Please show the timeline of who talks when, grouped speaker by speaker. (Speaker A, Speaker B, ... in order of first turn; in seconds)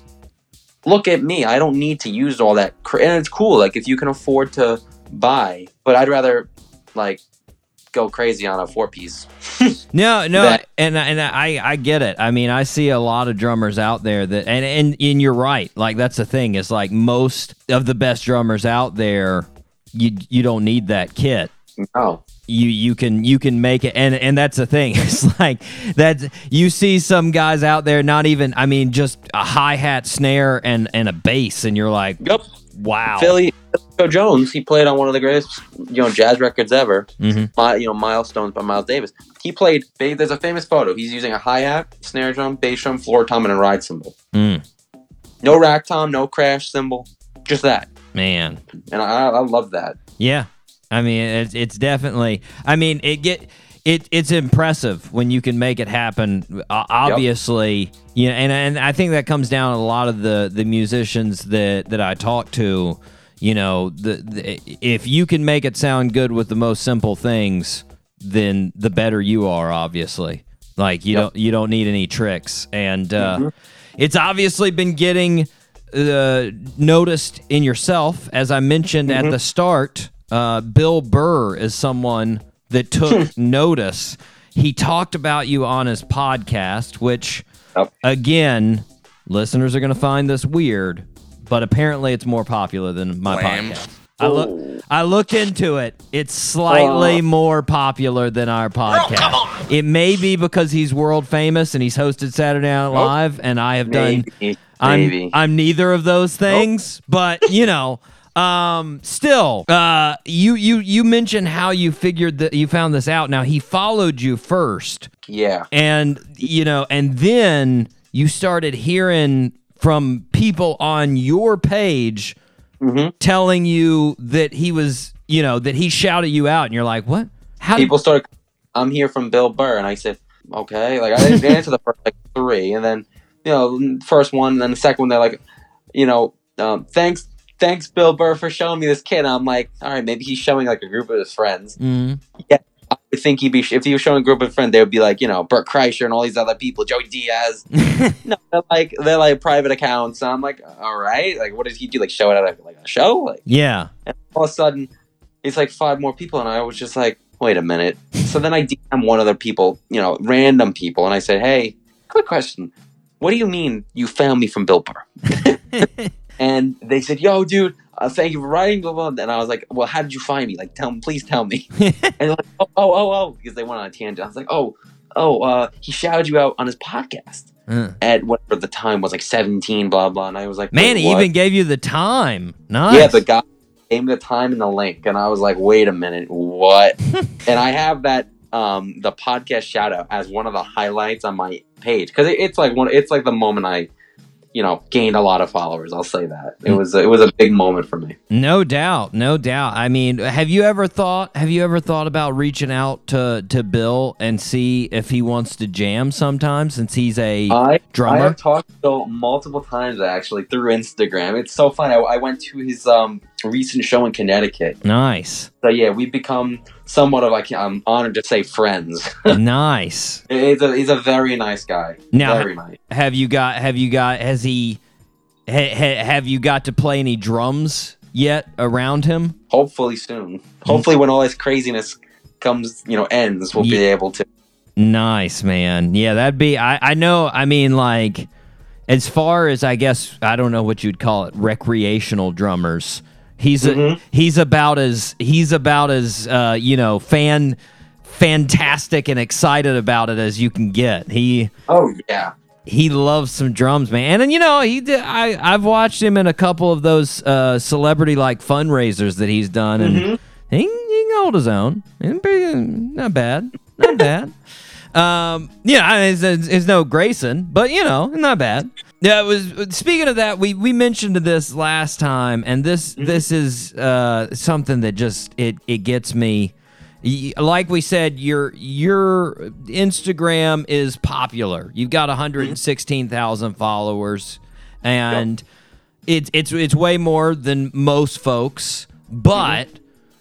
Speaker A: 0.8-7.2, 7.9-9.7, 10.3-10.6, 21.8-22.2, 33.2-44.1, 45.4-47.9, 48.9-50.0, 73.2-73.5, 79.1-79.3, 93.3-93.6, 94.2-94.8, 96.7-97.2, 103.9-105.3, 115.3-115.7, 122.8-123.1, 127.8-135.4, 135.9-141.8, 142.4-147.6, 148.2-153.4, 154.1-154.9, 155.4-165.8, 166.4-177.5, 178.0-181.3, 182.9-193.9, 194.5-198.2, 207.5-214.8, 215.6-219.4, 220.3-222.8, 229.5-234.2, 243.6-244.0, 251.7-252.3, 259.8-260.2, 273.0-273.2, 289.3-289.6
Speaker B: 9.9-21.5, 22.5-32.2, 32.7-33.4, 37.2-37.5, 44.3-44.6, 48.1-48.6, 50.2-73.4, 74.0-87.4, 88.0-104.2, 104.8-115.1, 115.7-122.3, 123.2-127.9, 141.8-142.2, 147.8-148.1, 153.4-153.9, 165.8-166.1, 171.8-172.1, 177.7-178.0, 180.7-183.2, 198.3-208.4, 214.8-215.5, 219.3-220.2, 222.1-224.8, 225.5-229.3, 233.6-233.8, 234.8-238.3, 238.9-251.5, 252.7-264.3, 264.9-285.4, 286.1-289.8